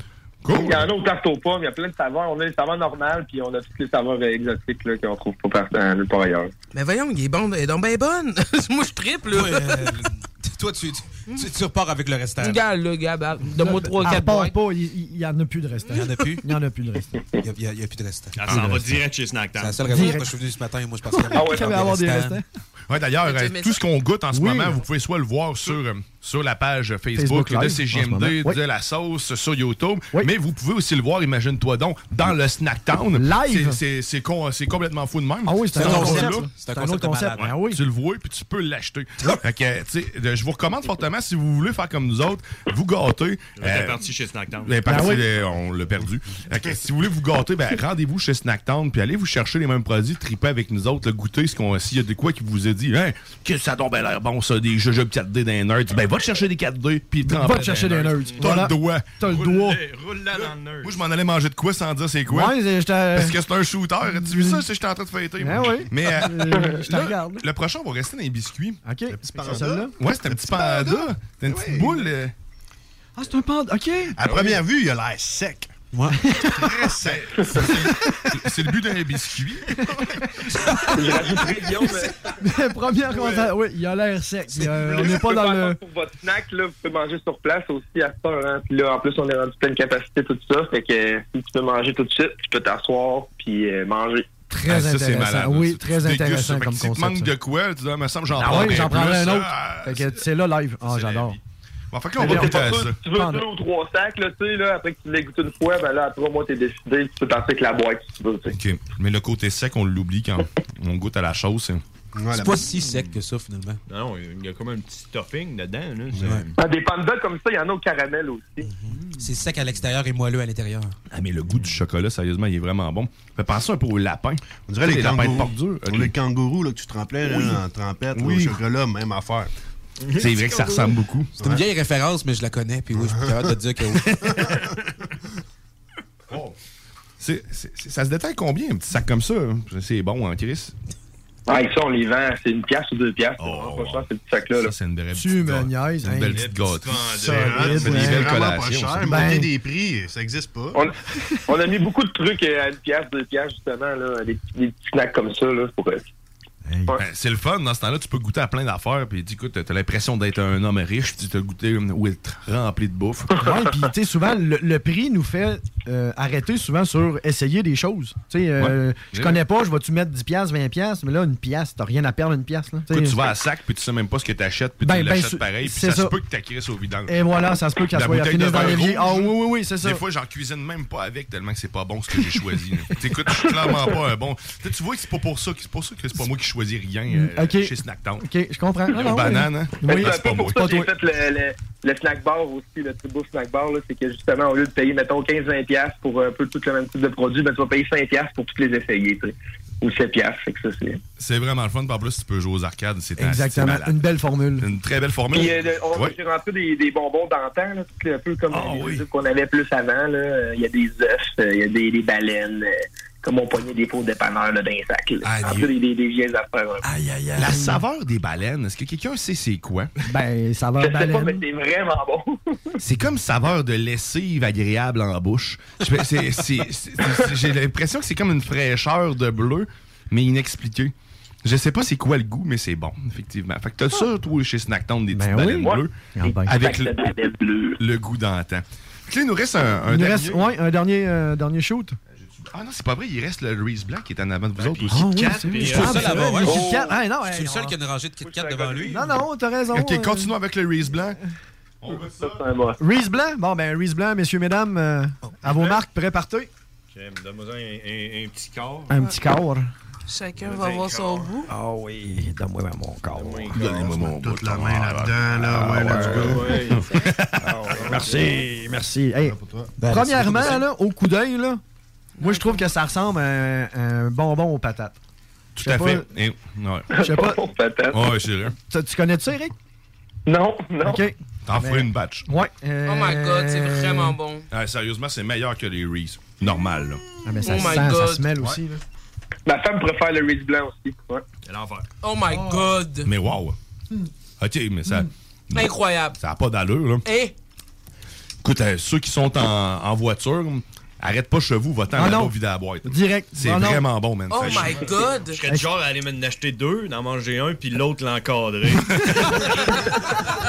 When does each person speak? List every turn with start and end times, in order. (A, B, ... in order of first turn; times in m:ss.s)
0:00.4-0:00.9 A
0:00.5-0:06.5 B
0:06.7-0:09.7 C
0:09.2-0:12.6 D
0:12.4-0:14.5 C
0:13.6-0:17.2 E
0:15.9-0:16.4 D
0:17.4-0:19.0 D
0:18.3-0:20.0 F
0:18.5-0:18.8 E
0:19.5-0:22.4 D
0:19.9-0:20.3 E
0:21.1-0:22.4 E
0:21.4-0:21.7 B
0:22.9-0:36.5 A
0:23.2-0:23.8 C
0:24.3-0:24.8 E
0:27.2-0:28.6 E
0:33.2-0:33.8 E
0:35.4-0:37.8 E
0:35.7-0:37.6 D
0:37.4-0:44.0 A
0:43.6-0:45.0 F
0:44.6-0:59.2 A
0:44.8-0:45.3 E
0:57.2-0:59.8 E
0:58.2-0:58.6 F
0:59.2-1:01.0 F
1:00.8-1:02.6 A
1:02.3-1:03.4 E
1:03.1-1:08.8 A
1:04.0-1:04.6 E
1:05.4-1:07.4 E
1:08.8-1:09.9 E
1:09.1-1:12.0 G
1:10.0-1:12.3 A
1:13.2-1:14.2 E
1:14.2-1:15.7 G
1:16.2-1:16.7 E
1:16.5-1:17.3 G
1:17.0-1:19.8 A
1:19.9-1:20.2 E
1:20.7-1:21.0 D
1:20.9-1:22.1 B
1:22.4-1:25.8 E
1:24.8-1:34.2 B
1:34.5-1:37.3 E
1:34.6-1:40.2 A
1:38.4-1:41.4 E
1:40.8-1:41.4 A
1:41.9-1:43.0 A
1:42.2-1:43.4 E
1:42.2-1:48.6 B
1:48.5-1:51.8 A
1:52.1-1:52.7 G
1:52.3-1:53.8 D
1:52.8-1:53.1 F
1:53.9-1:56.5 F
1:56.1-1:56.4 G
1:56.2-1:56.4 D
1:56.6-1:58.7 B
1:58.6-2:00.9 D
2:01.1-2:06.1 A
2:04.7-2:09.5 G
2:07.2-2:07.6 A
2:08.1-2:08.6 A
2:10.0-2:10.9 F
2:10.2-2:11.3 A
2:11.4-2:14.7 D
2:12.9-2:13.4 G
2:14.1-2:14.6 G
2:17.2-2:20.7 A
2:21.5-2:24.7 B
2:23.4-2:27.2 A
2:25.1-2:26.4 E
2:26.3-2:28.3 F
2:27.1-2:28.3 E
2:27.3-2:30.8 G
2:27.7-2:29.1 A
2:29.0-2:29.5 E
2:31.5-2:36.0 B
2:36.6-2:37.0 E
2:36.9-2:43.3 A
2:43.4-2:53.2 E
2:48.6-2:49.4 A
2:52.9-2:57.2 A
2:54.8-2:56.2 E
2:57.1-3:00.0 E
2:57.8-3:08.2 A
3:03.4-3:03.9 B
3:07.1-3:10.9 E
3:08.9-3:10.7 A
3:09.8-3:21.0 B
3:21.2-3:24.0 A
3:23.2-3:24.7 E
3:24.6-3:26.2 A
3:25.3-3:36.8 B
3:28.5-3:29.0 A
3:35.2-3:35.7 A
3:36.8-3:37.8 E
3:37.4-3:39.9 A
3:40.0-3:41.4 E
3:40.8-3:42.7 B
3:42.8-3:50.9 A
3:51.4-3:57.0 A
3:55.1-3:56.7 E
3:55.6-3:57.8 B
3:57.8-4:00.5 A
3:59.9-4:02.0 E
4:02.2-4:05.1 A
4:04.6-4:06.4 F
4:04.9-4:07.7 E
4:05.6-4:09.2 D
4:06.5-4:06.9 B
4:08.2-4:08.9 B
4:08.9-4:10.3 E
4:09.7-4:11.2 A
4:11.8-4:12.4 A
4:12.2-4:12.8 B
4:12.8-4:16.5 E
4:16.9-4:18.9 F
4:18.9-4:19.7 E
4:20.1-4:21.5 C
4:20.3-4:21.4 F
4:21.5-4:23.6 E
4:23.1-4:23.9 F
4:23.5-4:28.2 A
4:23.6-4:26.6 G
4:25.8-4:26.3 E
4:25.8-4:26.8 F
4:27.5-4:28.3 F
4:27.9-4:31.6 E
4:29.2-4:29.8 G
4:29.8-4:30.6 D
4:32.2-4:32.6 C
4:32.2-4:35.0 E
4:35.6-4:36.9 A
4:35.6-4:36.0 E
4:36.9-4:38.1 B
4:36.9-4:37.4 E
4:37.9-4:38.5 A
4:38.7-4:39.5 E
4:40.3-4:41.0 B
4:40.8-4:44.2 E
4:41.4-4:42.2 A
4:42.8-4:44.4 C
4:44.5-4:47.0 A
4:47.2-4:48.8 E
4:47.4-4:48.3 C
4:49.4-4:51.2 B
4:51.4-4:51.9 F
4:52.0-4:53.1 C
4:52.3-4:52.6 E
4:53.0-4:53.6 A
4:54.4-4:57.0 A
4:55.5-4:56.1 C
4:57.0-4:57.3 C
4:58.4-5:04.9 A
5:01.9-5:03.8 E
5:04.3-5:05.4 C
5:04.4-5:09.8 F